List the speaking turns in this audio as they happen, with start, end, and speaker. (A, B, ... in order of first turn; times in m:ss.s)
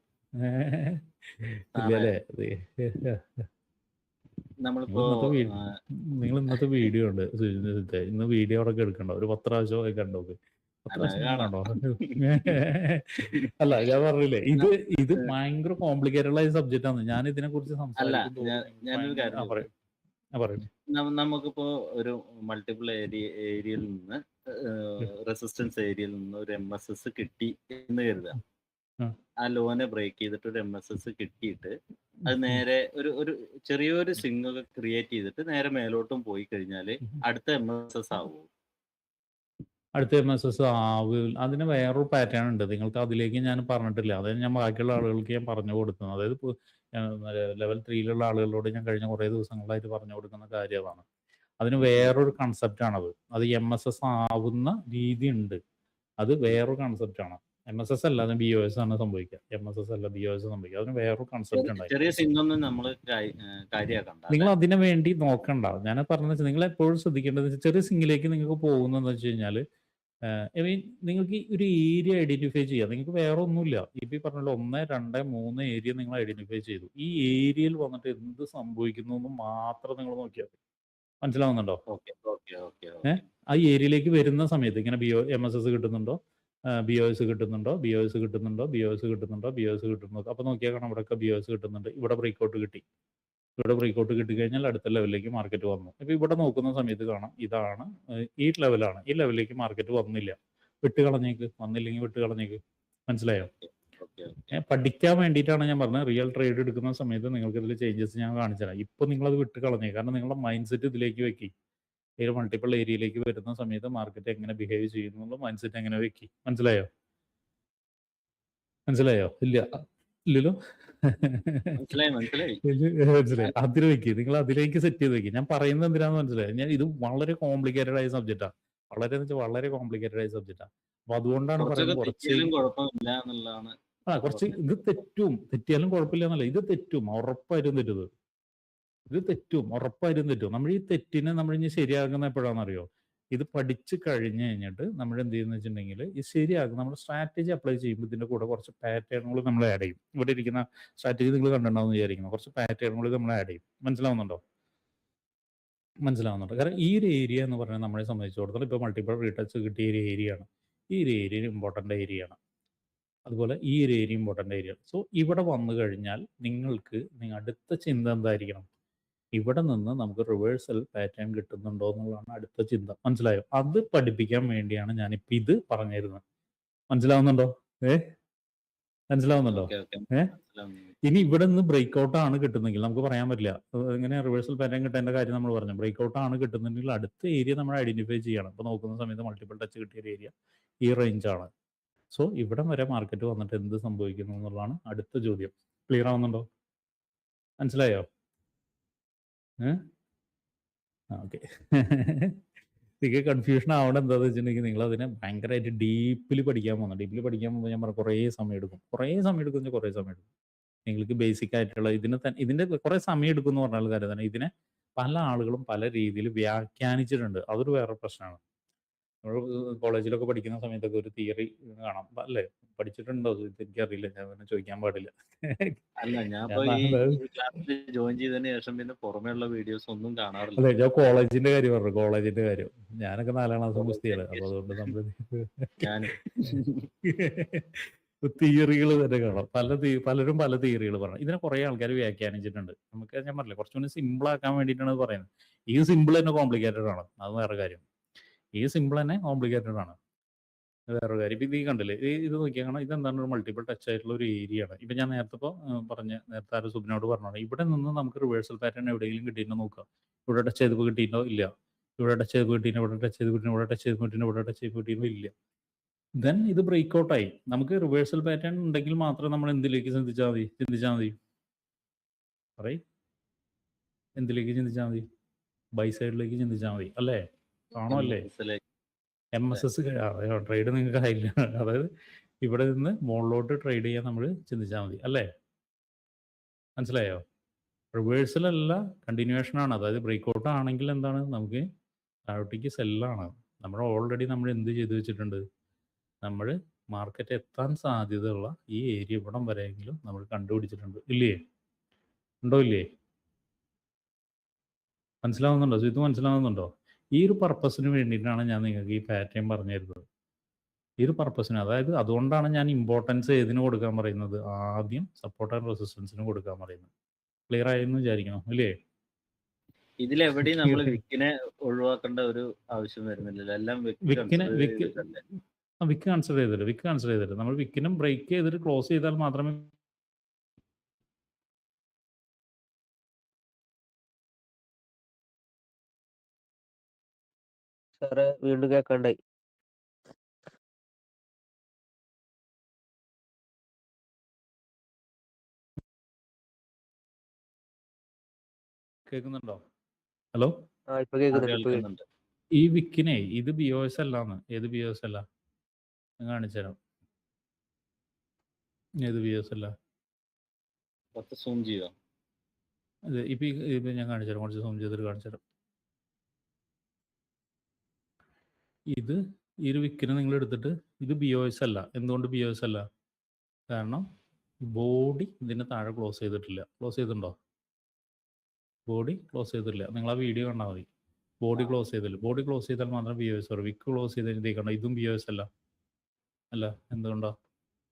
0:00.4-0:03.4 A
0:01.8-0:02.2 B
0:04.6-0:05.8 B
0:04.9-0:10.4 A
0:06.5-0:06.9 B
0:10.9-0:19.7 A
0:10.9-0:12.6 B
0:14.6-0:15.3 B
0:18.0-0:19.6 B
0:20.3-0:20.7 A
0:20.9-0:28.4 B
0:29.4-0:31.8 B
0:32.3-0:38.5 B
0:40.0-0:51.0 A
0:51.6-0:55.6 A
0:51.8-0:52.2 B
0:56.2-1:02.0 A
1:01.5-1:04.5 B
1:04.3-1:09.6 A
1:10.4-1:20.6 A
1:21.2-1:21.8 A
1:21.9-1:23.2 B
1:23.0-1:26.2 A
1:26.8-1:32.8 A
1:33.6-1:43.5 A
1:43.6-1:44.6 B
1:44.5-1:51.5 A
1:52.2-1:56.8 A
1:58.9-2:01.8 A
2:01.8-2:02.6 B
2:02.6-2:12.5 A
2:11.6-2:14.9 B
2:14.1-2:18.1 A
2:19.1-2:34.4 A
2:36.0-2:42.4 A
2:43.3-2:48.7 A
2:49.3-2:56.2 A
2:56.9-2:58.0 A
2:59.1-3:00.3 A
2:59.5-3:00.9 B
3:01.0-3:10.3 A
3:10.8-3:11.5 A
3:12.1-3:16.4 A
3:17.6-3:18.0 A
3:21.1-3:22.4 A
3:23.0-3:30.2 A
3:30.8-3:38.4 A
3:39.2-3:45.7 A
3:46.0-3:50.7 B
3:46.5-3:47.2 A
3:50.6-3:55.8 A
3:53.8-3:54.9 B
3:55.8-3:56.9 B
3:57.0-4:07.8 A
4:08.6-4:10.0 A
4:10.9-4:21.5 A
4:22.0-4:25.3 A
4:26.2-4:31.2 A
4:34.2-4:35.0 A
4:35.8-4:37.2 A
4:37.8-4:38.3 A
4:37.9-4:38.6 B
4:39.3-4:41.9 A
4:42.4-4:45.2 A
4:46.8-4:47.2 A
4:47.9-4:51.6 A
4:52.3-4:55.4 A
4:56.2-5:01.4 A
5:02.4-5:02.8 A
5:05.2-5:10.0 A
5:11.0-5:16.9 A
5:17.5-5:18.7 A
5:20.0-5:25.2 B
5:20.6-5:21.0 A
5:24.1-5:25.0 A
5:25.8-5:29.7 A
5:38.0-5:39.2 C
5:49.1-5:49.6 A
5:50.9-5:51.8 C
5:51.3-5:52.0 B
5:52.6-5:55.2 A
5:56.2-5:56.8 A
5:59.0-5:59.7 A
6:01.2-6:01.9 B
6:03.1-6:05.4 A
6:08.9-6:12.8 A
6:13.7-6:14.0 A
6:14.7-6:17.3 A
6:18.9-6:20.9 A
6:21.4-6:25.4 A
6:26.5-6:27.3 A